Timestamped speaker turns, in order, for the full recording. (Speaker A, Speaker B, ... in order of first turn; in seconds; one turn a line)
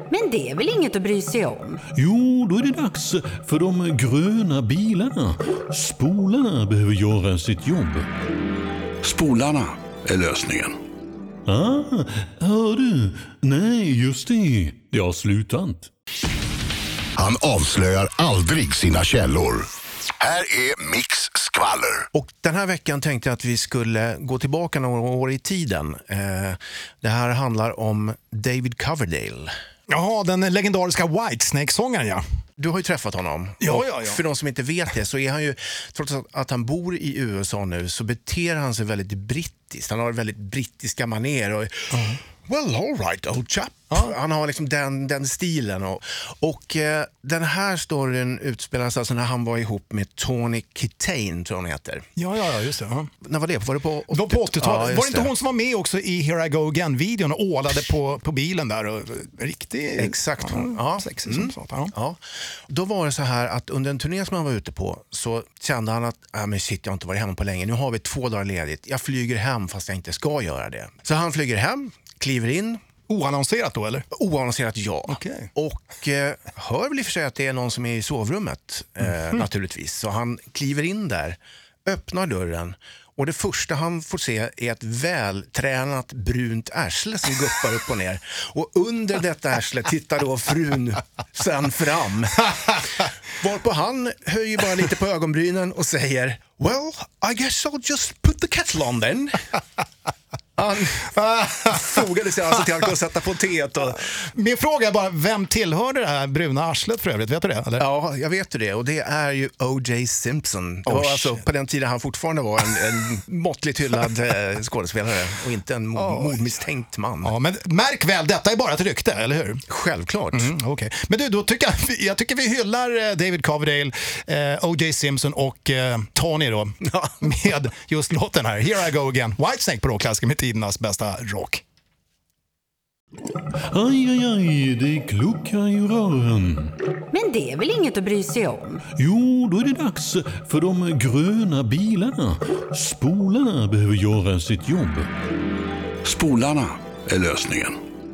Speaker A: 0.1-1.8
Speaker B: 2.0-8.1
Speaker C: 9.0-10.8
Speaker B: 11.5-15.9
Speaker D: 17.2-22.1
Speaker E: 22.1-29.5
Speaker F: 29.9-32.2
Speaker E: 32.6-41.9
Speaker F: 33.6-34.2
Speaker F: 41.9-42.2
Speaker E: 42.5-52.0
Speaker F: 52.2-53.1
Speaker E: 53.2-55.3
Speaker F: 54.1-61.9
Speaker E: 60.0-62.2
Speaker E: 62.7-72.8
Speaker F: 73.1-74.0
Speaker E: 74.1-92.8
Speaker F: 75.1-75.5
Speaker E: 93.4-99.4
Speaker E: 100.6-104.1
Speaker F: 104.2-107.8
Speaker E: 107.8-117.3
Speaker F: 110.9-111.4
Speaker F: 116.0-116.4
Speaker F: 117.2-119.6
Speaker E: 119.7-120.5
Speaker F: 120.3-131.6
Speaker B: 133.7-136.7
Speaker A: 137.1-138.8
Speaker B: 139.0-145.1
Speaker C: 146.0-147.8